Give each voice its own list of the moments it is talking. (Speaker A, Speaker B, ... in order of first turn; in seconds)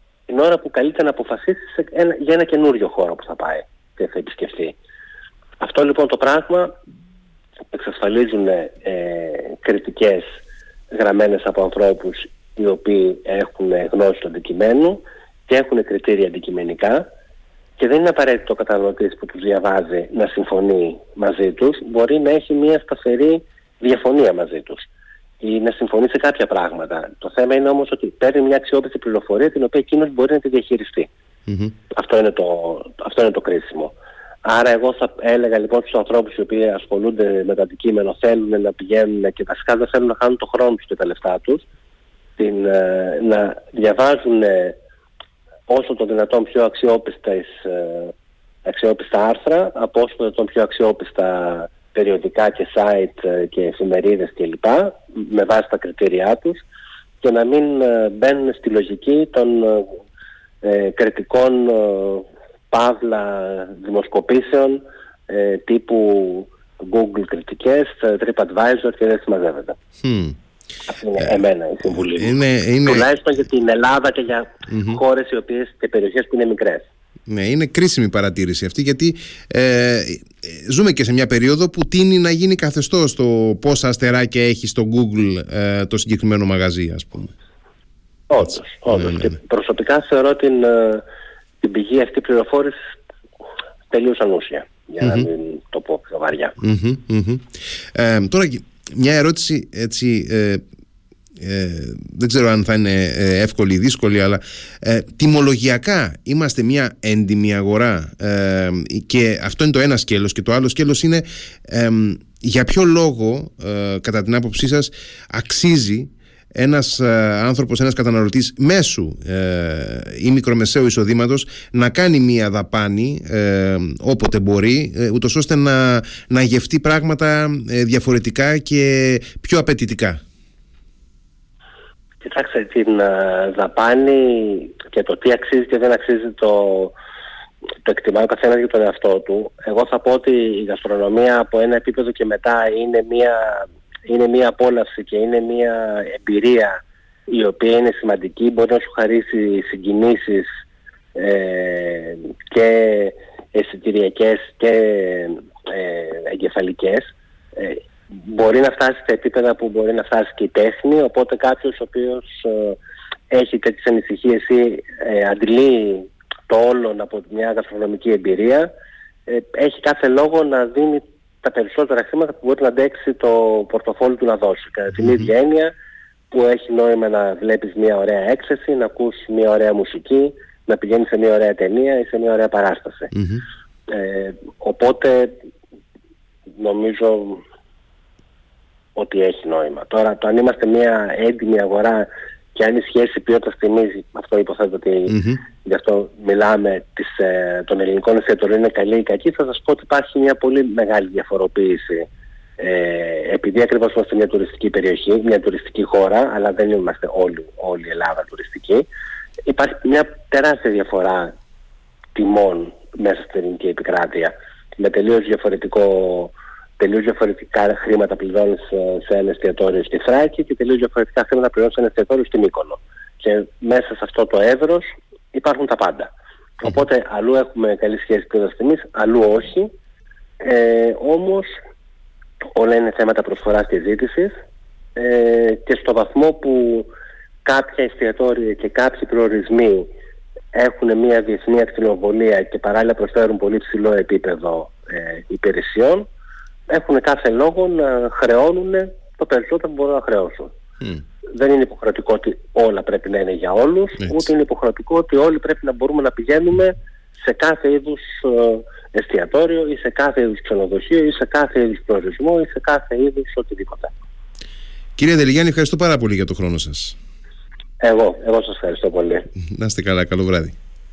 Speaker A: 0.3-4.8, 5.6-6.7, 7.7-10.3, 10.9-17.1, 17.8-24.9, 25.4-31.1, 31.9-41.6, 42.4-44.8, 45.7-48.1, 48.6-56.6, 57.2-60.0, 60.6-69.8, 70.9-76.9, 88.3-91.0, 91.6-92.8, 93.9-96.5, 132.2-136.9, 137.8-146.8, 147.3-150.5, 151.1-162.8, 163.3-168.7, 169.3-175.7, 176.3-183.1, 183.9-185.3, 186.6-187.4, 188.9-208.9, 209.4-211.3, 212.1-229.7, 230.4-231.5, 232.4-234.3, 234.9-236.9, 237.4-239.9, 240.5-246.1, 246.7-250.5, 251.3-263.9, 267.8-269.3
Speaker B: 31.5-31.7, 70.0-70.3, 71.9-73.1, 74.7-75.0, 77.3-87.3, 88.9-89.3, 95.0-95.3, 96.6-100.6, 101.4-130.2, 183.1-183.4, 195.1-195.4, 265.0-266.9, 269.4-270.5